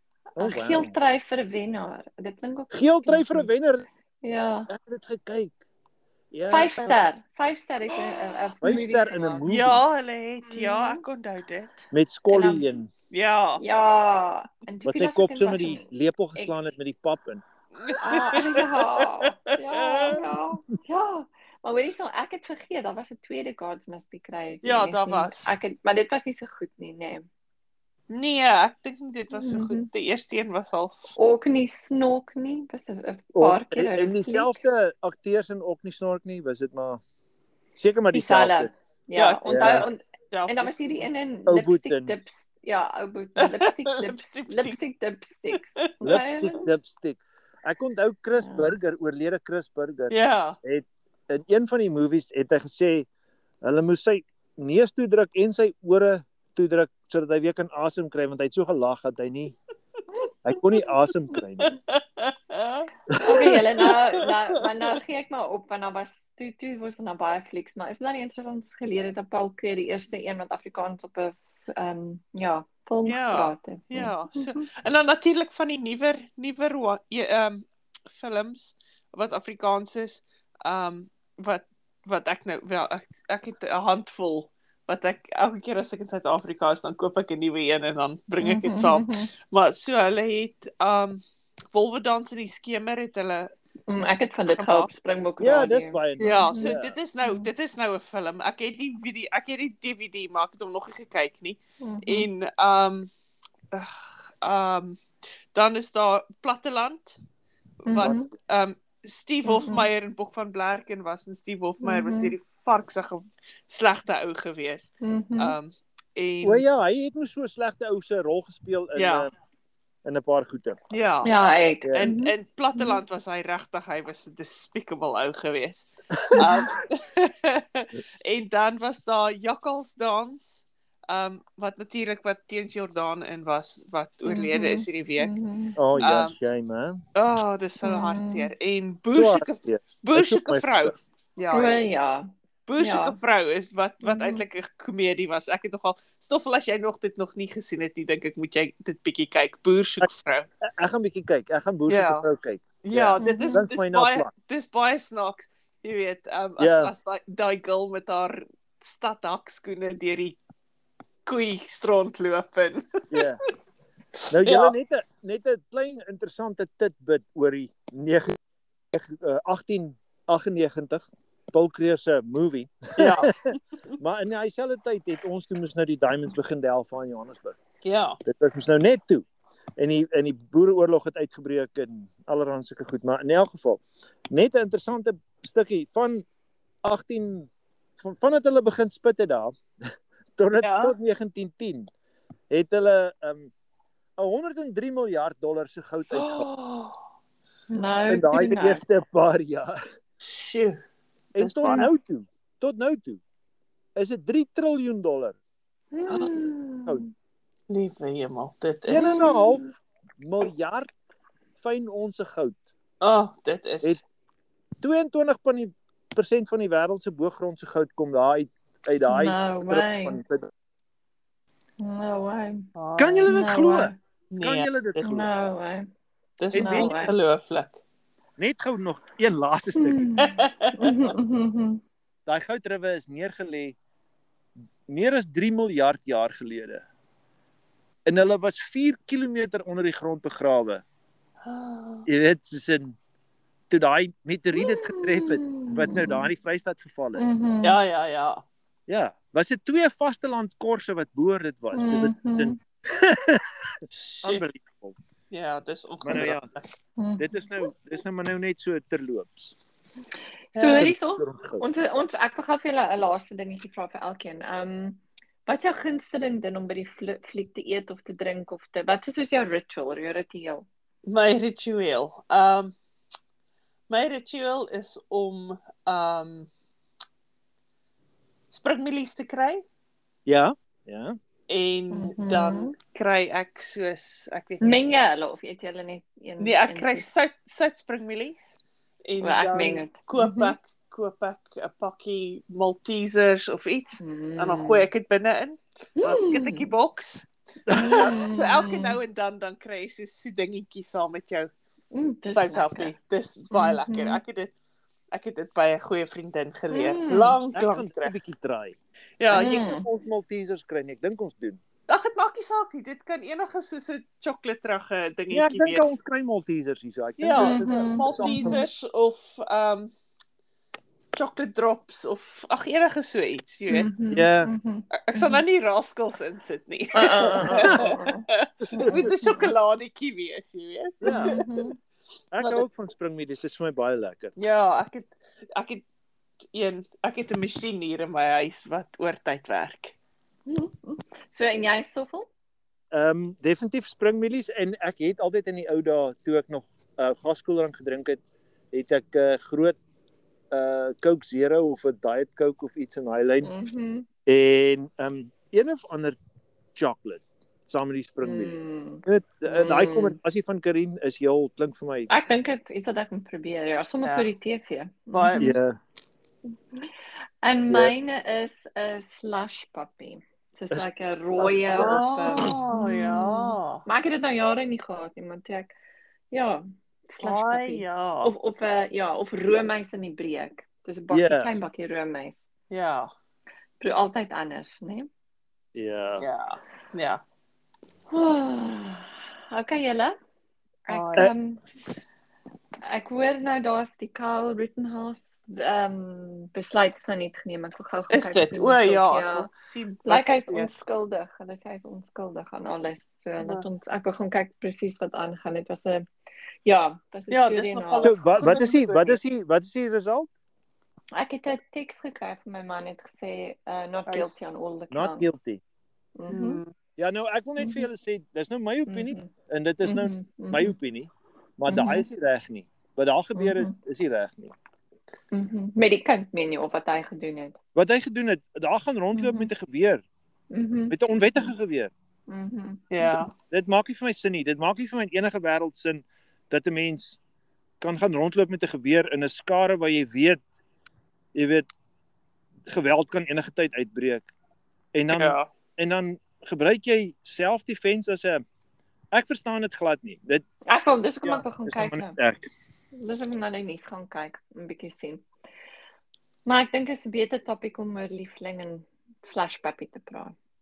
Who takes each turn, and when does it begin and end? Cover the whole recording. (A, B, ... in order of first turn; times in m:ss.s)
0:00.3-0:03.5 A
0:00.4-0:00.9 B
0:02.7-0:03.8 B
0:04.2-0:04.7 A
0:04.7-0:05.6 B
0:06.3-0:07.0 B
0:06.5-0:09.4 A
0:08.6-0:09.8 B
0:09.5-0:11.8 C
0:10.5-0:11.0 A
0:11.9-0:12.9 B
0:12.3-0:12.6 A
0:13.1-0:13.6 C
0:13.6-0:16.5 A
0:14.8-0:17.4 B
0:17.8-0:20.2 C
0:18.0-0:27.3 A
0:24.6-0:25.5 C
0:28.1-0:31.1 C
0:29.3-0:29.9 A
0:31.2-0:34.6 A
0:33.3-0:37.0 B
0:37.8-0:38.7 B
0:38.1-0:46.6 A
0:39.2-0:41.1 C
0:39.4-0:39.8 B
0:41.5-0:42.2 B
0:43.4-0:44.8 C
0:46.0-0:53.1 B
0:48.4-0:48.7 A
0:50.1-0:50.6 C
0:53.6-0:59.6 B
1:00.4-1:01.7 B
1:01.6-1:02.9 C
1:03.2-1:14.5 A
1:03.3-1:03.6 B
1:03.8-1:04.2 C
1:13.0-1:31.2 C
1:28.4-1:29.3 A
1:31.7-1:33.5 C
1:33.9-1:37.5 A
1:34.5-1:34.9 C
1:35.4-1:37.0 B
1:36.2-1:43.1 C
1:41.8-1:42.3 A
1:43.7-1:45.0 C
1:45.5-1:47.2 C
1:47.8-1:48.3 A
1:47.8-1:56.6 C
1:49.5-1:49.9 A
1:51.8-1:52.3 A
1:55.0-1:55.6 A
1:56.4-1:59.3 B
1:59.0-1:59.3 C
2:00.0-2:00.8 B
2:00.9-2:01.3 C
2:01.2-2:03.0 A
2:01.8-2:02.1 B
2:01.9-2:15.3 C
2:06.3-2:06.6 B
2:14.2-2:15.8 A
2:15.8-2:17.0 B
2:16.0-2:16.3 C
2:17.2-2:21.8 C
2:17.8-2:18.5 A
2:19.1-2:20.9 B
2:21.5-2:23.2 A
2:22.7-2:30.5 C
2:24.0-2:24.4 A
2:30.6-2:34.3 B
2:31.9-2:32.2 C
2:32.8-2:40.4 C
2:33.2-2:33.6 A
2:36.6-2:36.9 B
2:41.2-2:43.3 C
2:43.1-2:43.4 B
2:44.3-2:48.4 B
2:44.4-2:44.8 C
2:48.9-2:53.3 B
2:53.0-2:53.3 C
2:54.0-2:57.6 B
2:57.8-2:58.2 C
2:58.2-2:59.2 B
2:59.8-3:06.2 B
3:06.8-3:09.6 B
3:10.4-3:11.9 B
3:10.6-3:10.9 C
3:12.5-3:13.5 B
3:14.2-3:16.5 B
3:16.1-3:17.0 C
3:17.7-3:18.8 A
3:18.1-3:19.8 B
3:20.2-3:20.8 C
3:21.3-3:23.2 B
3:21.4-3:21.9 C
3:21.6-3:21.9 A
3:24.0-3:25.4 B
3:25.9-3:27.1 A
3:27.7-3:29.3 C
3:28.9-3:30.9 B
3:28.9-3:29.7 A
3:31.6-3:32.6 B
3:33.0-3:34.0 C
3:34.8-3:40.5 B
3:39.1-3:40.2 A
3:41.8-3:42.7 A
3:42.8-3:43.6 C
3:43.0-3:45.3 B
3:43.3-3:44.0 A
3:44.3-3:45.1 C
3:45.0-3:45.9 A
3:46.4-3:47.8 C
3:46.5-3:46.9 B
3:46.5-3:47.1 A
3:48.4-3:50.2 B
3:49.8-3:51.8 A
3:50.2-3:51.1 C
3:52.3-3:53.8 B
3:54.9-3:56.8 B
3:58.0-4:00.8 B
4:01.4-4:02.0 C
4:02.1-4:03.0 B
4:03.7-4:07.2 B
4:04.5-4:06.3 A
4:07.2-4:07.8 A
4:07.6-4:08.4 C
4:08.9-4:13.4 B
4:11.7-4:12.6 A
4:13.9-4:14.4 C
4:14.2-4:15.0 B
4:15.3-4:16.6 C
4:16.0-4:16.5 B
4:17.0-4:17.4 A
4:17.2-4:19.6 B
4:20.5-4:20.9 C
4:20.5-4:30.7 A
4:20.8-4:21.6 B
4:31.0-4:32.7 C
4:33.9-4:36.5 C
4:38.5-4:39.6 C
4:40.3-4:41.1 B
4:41.5-4:44.8 C
4:41.9-4:42.7 A
4:44.6-4:47.1 A
4:46.4-5:01.5 C
4:49.2-4:50.6 A
4:54.0-4:54.8 A
4:56.0-4:56.7 A
4:57.7-4:58.1 B
4:57.7-4:59.0 A
5:01.9-5:02.9 A
5:02.4-5:04.5 C
5:03.5-5:04.2 A
5:05.1-5:08.1 C
5:06.7-5:07.4 A
5:07.5-5:08.8 B
5:09.2-5:09.5 C
5:09.3-5:11.6 B
5:09.3-5:09.9 A
5:11.9-5:16.0 C
5:15.3-5:18.6 B
5:17.2-5:19.9 C
5:17.3-5:18.6 A
5:21.2-5:23.9 C
5:23.7-5:25.4 A
5:24.1-5:24.5 B
5:25.0-5:31.4 C
5:26.9-5:29.5 A
5:27.6-5:27.9 B
5:31.0-5:31.3 B
5:31.0-5:31.8 A
5:32.3-5:34.3 B
5:32.4-5:32.6 C
5:34.4-5:35.8 C
5:36.5-5:40.0 C
5:40.5-5:42.3 A
5:42.9-5:48.2 B
5:48.7-5:49.8 B
5:50.5-5:53.5 B
5:53.4-5:54.0 A
5:54.2-5:56.2 B
5:56.8-5:58.5 B
5:58.2-6:00.2 A
5:59.0-6:02.1 B
6:02.1-6:05.6 A
6:04.0-6:04.3 C
6:05.1-6:05.5 C
6:05.4-6:05.8 B
6:07.4-6:15.7 A
6:07.7-6:07.9 B
6:11.4-6:12.5 B
6:11.7-6:13.8 C
6:16.3-6:22.4 A
6:17.2-6:18.3 C
6:21.1-6:21.5 B
6:22.7-6:23.1 C
6:23.8-6:25.1 A
6:25.7-6:26.2 B
6:26.2-6:27.2 C
6:28.1-6:30.1 A
6:30.9-6:31.6 A
6:30.9-6:31.3 C
6:32.8-6:39.5 A
6:38.1-6:40.8 C
6:40.0-6:46.0 A
6:43.4-6:43.6 C
6:46.6-6:48.8 A
6:47.3-6:49.2 C
6:48.0-6:50.3 B
6:51.1-6:55.3 A
6:54.1-6:54.4 C
6:54.9-6:55.6 B
6:56.2-6:56.6 A
6:56.3-6:56.7 C
6:57.0-7:04.5 B
6:57.6-6:57.9 A
6:58.9-6:59.3 A
6:59.8-7:00.8 A
7:01.7-7:02.1 A
7:03.3-7:03.7 A
7:05.3-7:07.6 A
7:07.7-7:10.0 B
7:09.1-7:09.5 A
7:10.5-7:11.5 A
7:10.9-7:11.9 B
7:12.3-7:13.2 A
7:12.9-7:13.3 C
7:13.5-7:17.2 B
7:17.8-7:20.4 B
7:21.3-7:21.7 B
7:22.7-7:24.3 B
7:24.9-7:28.4 B
7:25.1-7:25.5 C
7:29.1-7:30.4 B
7:30.7-7:32.2 A
7:31.6-7:32.5 B
7:32.9-7:35.2 A
7:36.4-7:40.3 A